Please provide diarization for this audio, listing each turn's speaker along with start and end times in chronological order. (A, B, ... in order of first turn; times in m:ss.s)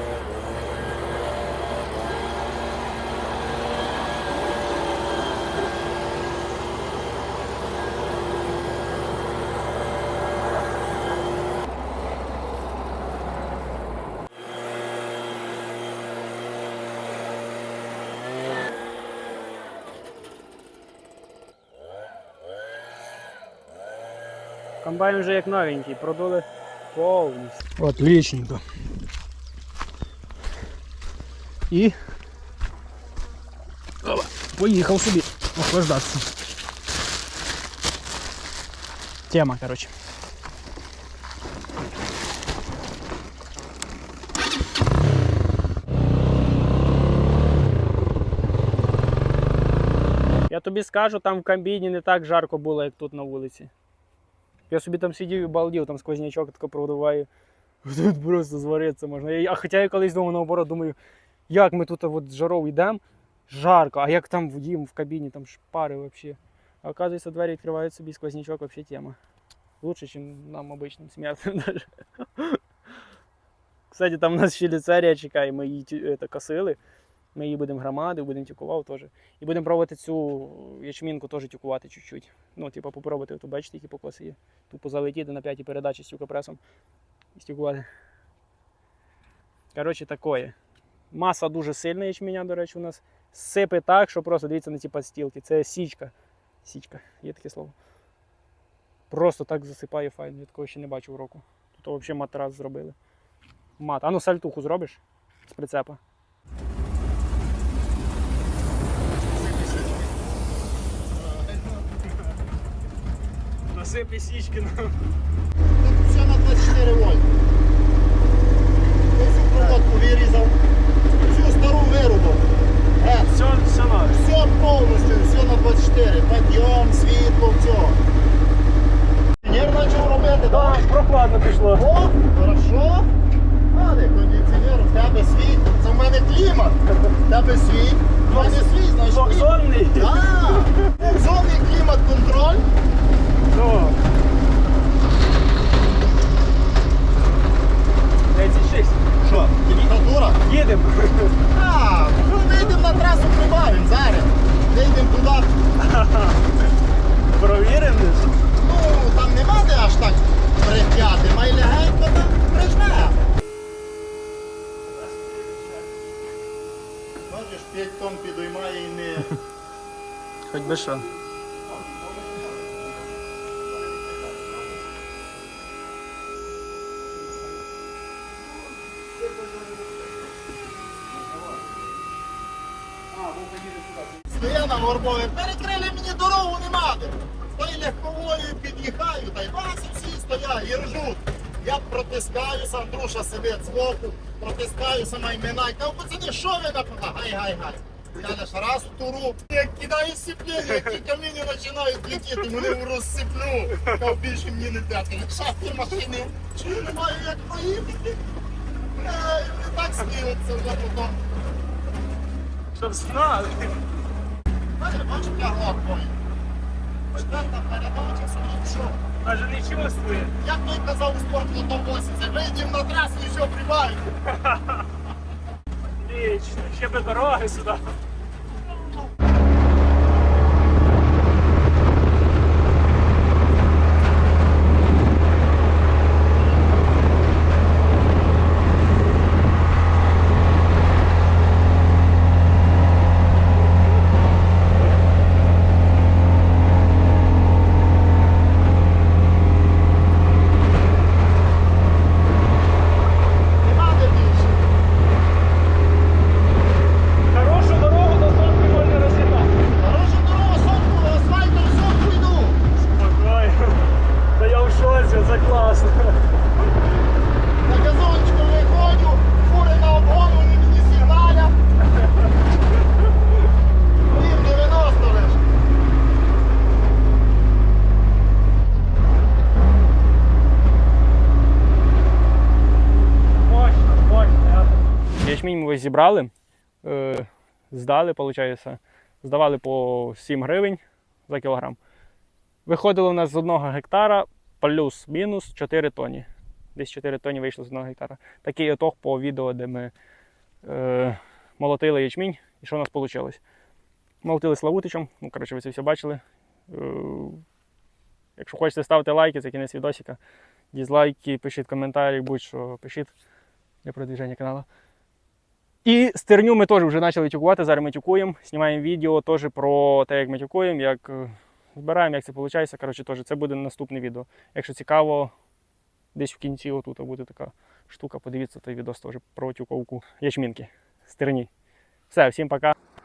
0:24.8-0:28.6 A
0:31.7-0:32.0 A
0:34.0-0:36.2 A
0:39.3-0:39.9 A
0:50.5-0:53.7 A
0:54.7-0:57.3 A
0:57.8-1:01.0 A
1:01.5-1:09.2 A
1:09.8-1:12.6 A
1:13.9-1:16.8 A
1:17.3-1:26.6 A
1:27.3-1:27.8 A
1:29.7-1:30.5 A
1:31.1-1:36.1 A
1:36.6-1:37.7 A
1:39.1-1:43.0 A
1:43.8-1:46.0 A
1:49.4-1:50.0 A
1:51.2-1:51.8 B
1:53.7-1:54.9 A
1:55.8-1:57.3 B
1:59.1-2:00.5 B
1:59.5-1:59.8 A
2:01.2-2:02.4 B
2:03.0-2:03.4 B
2:03.3-2:04.2 A
2:04.1-2:08.0 B
2:09.4-2:10.8 B
2:10.5-2:11.8 A
2:11.7-2:13.1 B
2:13.7-2:22.6 B
2:18.2-2:20.1 A
2:23.5-2:24.0 A
2:28.3-2:29.0 A
2:29.2-2:30.4 B
2:30.4-2:31.3 A
2:31.5-2:35.5 B
2:35.8-2:36.4 A
2:37.3-2:38.3 A
2:38.6-2:43.2 B
2:47.2-2:49.4 B
2:50.5-2:51.1 A
2:51.9-2:52.6 B
3:04.2-3:28.2 B
3:28.9-3:31.1 B
3:32.7-3:33.7 A
3:34.8-3:36.2 B
3:37.1-3:39.0 B
3:39.2-3:40.3 A
3:40.4-3:44.2 B
3:44.3-3:44.8 A
3:46.0-3:47.8 A
4:13.6-4:14.6 B
4:17.3-4:19.6 A
4:19.8-4:22.6 B
4:22.8-4:26.2 A
4:27.6-4:31.5 B
4:34.0-4:35.4 B
4:43.4-4:46.3 A
4:46.8-4:51.8 A
4:52.6-4:59.9 A
5:00.6-5:03.4 A
5:04.2-5:07.4 A
5:08.4-5:10.2 A
5:10.7-5:13.1 A
5:13.8-5:14.6 A
5:15.8-5:25.3 A
5:26.1-5:31.5 A
5:32.1-5:32.7 A